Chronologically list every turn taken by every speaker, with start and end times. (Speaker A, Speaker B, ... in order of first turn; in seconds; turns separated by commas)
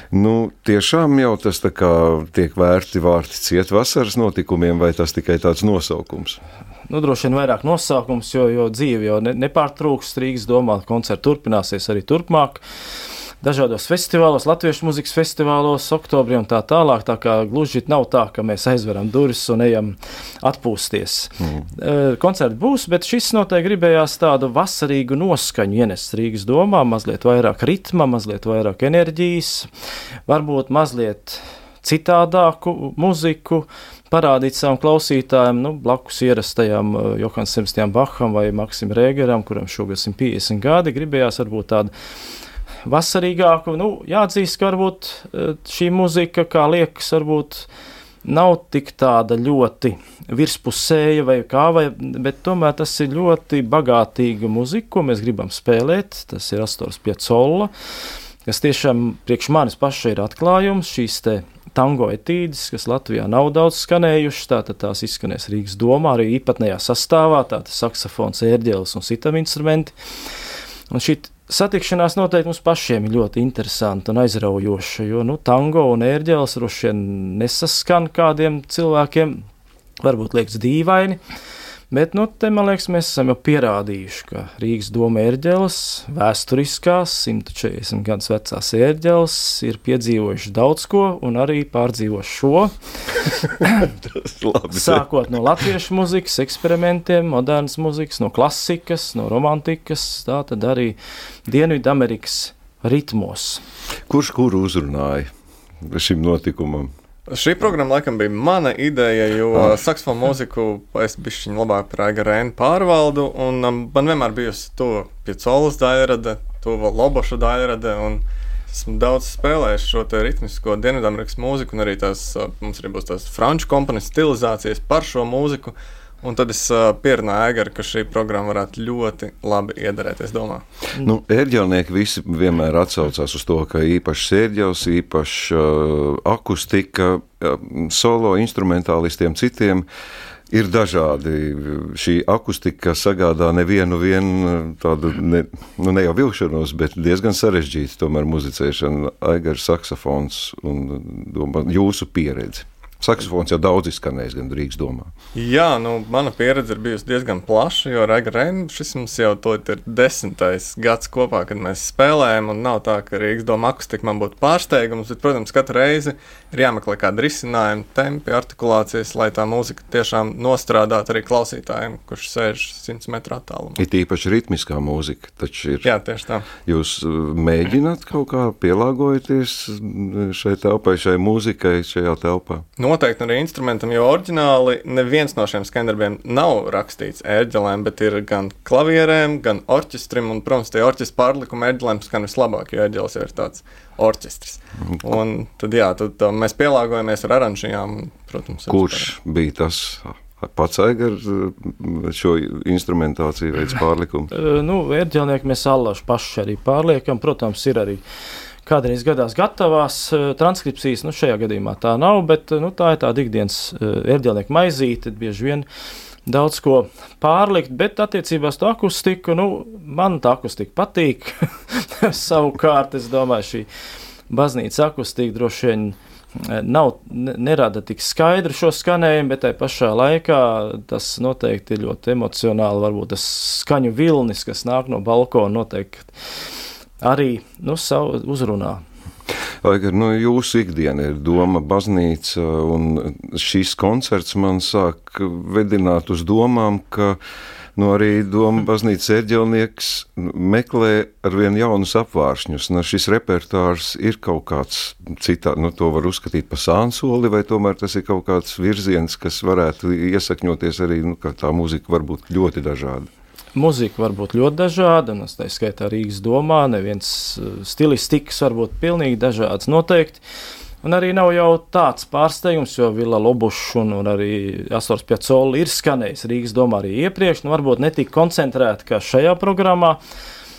Speaker A: 0.1-6.4, Speaker B: 6.9-12.6, Speaker B: 13.4-29.7, Speaker B: 30.3-41.9, Speaker B: 42.8-47.7, Speaker B: 48.2-57.7, Speaker B: 58.5-69.9, Speaker B: 70.9-79.4, Speaker B: 80.0-81.2, Speaker B: 81.9-92.7, Speaker A: 93.8-95.0, Speaker B: 94.7-101.0, Speaker B: 101.5-103.6, Speaker A: 104.1-105.3, Speaker A: 105.8-106.9, Speaker C: 107.3-130.6, Speaker A: 130.9-139.8, Speaker A: 140.5-155.1, Speaker C: 155.3-173.8, Speaker A: 173.8-175.9, Speaker C: 175.8-176.5, Speaker A: 176.6-182.6, Speaker C: 182.8-199.1, Speaker A: 198.7-204.3, Speaker B: 204.3-208.0, Speaker B: 208.7-215.7, Speaker B: 216.2-223.7, Speaker B: 224.3-236.1, Speaker B: 237.0-238.8, Speaker A: 239.6-247.2, Speaker A: 247.8-263.1, Speaker B: 263.5-270.2, Speaker B: 270.8-280.0